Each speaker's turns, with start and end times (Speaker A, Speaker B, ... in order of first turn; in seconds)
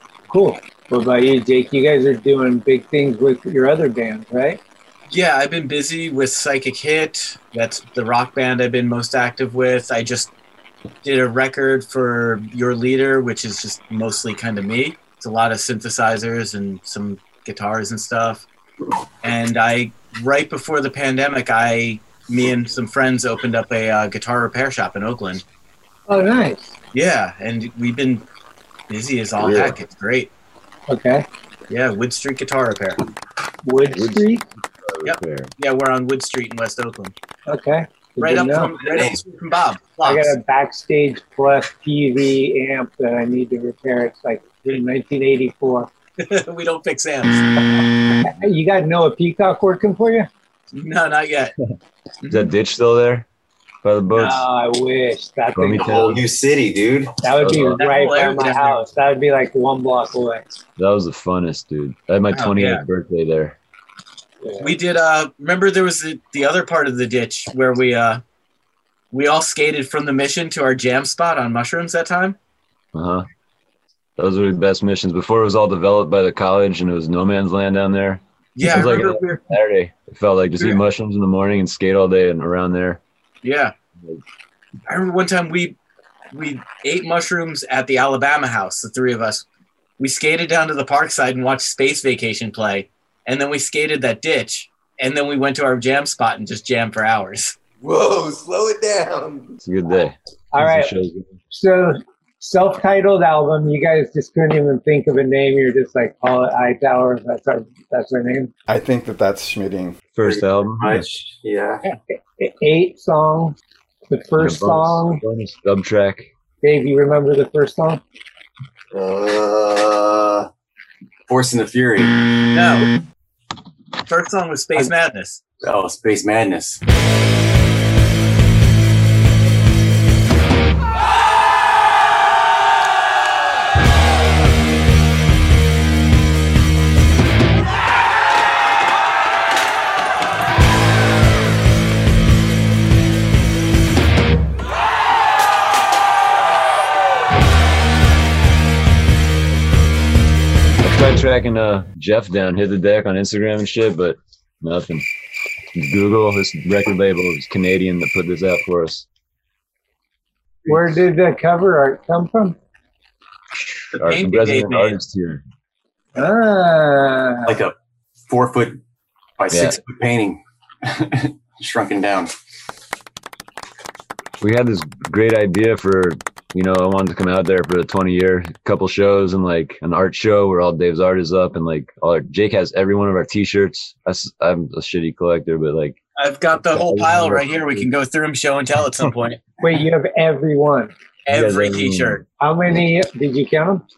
Speaker A: 0.3-4.6, 26.1-26.8, 30.9-31.3, 33.6-34.5, 37.5-38.7, 40.0-45.9, 48.2-50.3, 54.1-56.1, 57.2-60.4, 64.4-64.8, 100.5-100.9, 101.5-108.5, 112.1-113.6, 114.1-115.2, 116.6-118.0, 160.7-162.6, 166.2-167.6, 189.6-190.9, 192.4-193.8
Speaker B: 5.1-10.3, 11.0-18.4, 19.2-25.4, 26.9-28.2, 28.9-30.3, 31.7-33.0, 35.0-37.1, 38.2-40.3, 46.2-47.5, 50.7-51.5, 52.2-52.5, 57.8-58.8, 62.3-62.8, 64.6-68.2, 69.1-72.4, 78.6-79.4, 83.4-83.7, 84.9-85.8, 86.3-89.5, 90.0-97.5, 122.5-122.9, 124.1-125.4, 163.9-165.0, 186.2-189.4, 191.3-192.2
Speaker C: 29.4-29.8, 33.9-35.5, 52.3-53.3, 53.8-54.4, 55.5-56.2, 57.4-58.0, 60.8-63.6, 72.9-73.2, 74.2-83.0, 99.6-101.3, 110.1-111.0, 114.4-116.3, 150.8-155.1, 155.8-159.1, 164.0-165.4, 169.5-169.8, 174.4-186.0, 186.7-187.9, 191.3-192.2
Speaker D: 38.8-39.2, 55.8-57.1, 110.2-111.8, 118.9-120.5, 121.3-122.1, 125.6-126.8, 167.5-167.8, 168.3-168.8, 169.4-172.3
Speaker E: 97.8-99.6, 108.7-110.0